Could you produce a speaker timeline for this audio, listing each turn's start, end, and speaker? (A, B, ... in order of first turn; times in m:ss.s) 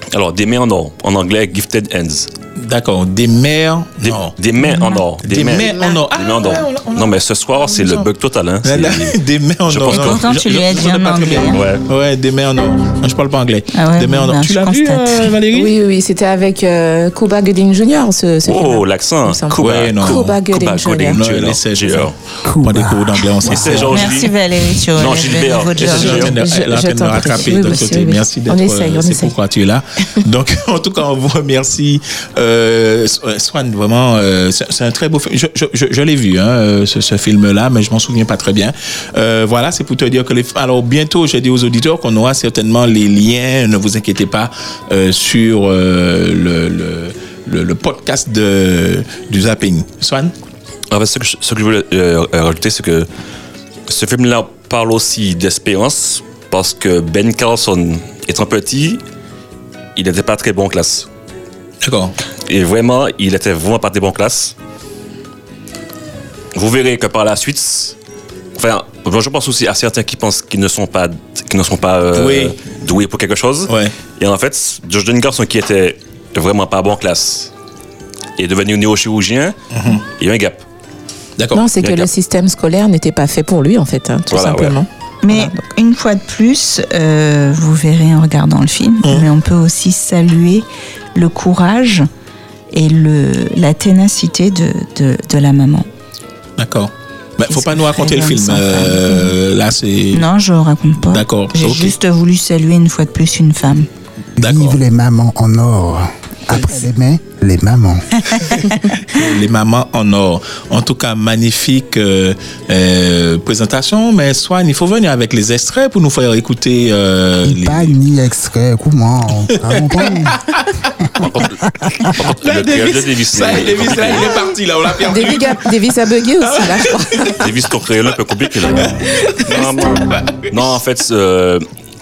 0:00.1-0:02.3 A
0:02.6-0:04.3 B
0:04.0-0:09.2 A
0:04.6-0:05.0 C
0:05.2-0:08.1 B
0:08.6-0:15.7 B
0:09.7-0:10.5 A
0:09.9-0:11.6 C
0:11.5-0:11.8 A
0:13.7-0:15.4 C
0:15.5-0:21.2 D
0:18.5-0:22.1 A
0:19.6-0:20.4 B
0:21.1-0:24.2 B
0:22.5-0:23.2 E
0:23.4-0:24.4 A
0:23.5-0:26.4 C
0:24.9-0:26.4 A
0:25.8-0:50.3 B
0:26.3-0:29.4 D
0:50.9-0:53.1 A
0:53.9-0:59.0 A
1:00.0-1:01.1 A
1:01.8-1:02.1 B
1:02.5-1:04.5 A
1:06.6-1:08.0 A
1:08.6-1:17.5 A
1:12.1-1:12.6 B
1:13.7-1:13.9 B
1:18.4-1:19.6 A
1:19.7-1:20.0 B
1:20.2-1:20.6 A
1:21.4-1:21.7 B
1:21.5-1:25.6 D
1:21.8-1:22.1 A
1:24.3-1:24.8 A
1:25.2-1:32.1 C
1:29.0-1:29.3 B
1:32.7-1:35.9 C
1:36.6-1:40.3 B
1:37.5-1:39.3 C
1:40.1-1:43.9 C
1:41.0-1:42.0 B
1:44.4-1:44.8 B
1:44.4-1:48.4 E
1:46.5-1:46.8 C
1:49.1-1:58.0 B
1:57.4-2:00.4 E
1:59.7-2:00.6 B
2:01.2-2:04.4 A
2:02.4-2:05.6 B
2:05.1-2:07.4 D
2:06.4-2:07.4 B
2:07.4-2:11.6 A
2:08.7-2:10.5 B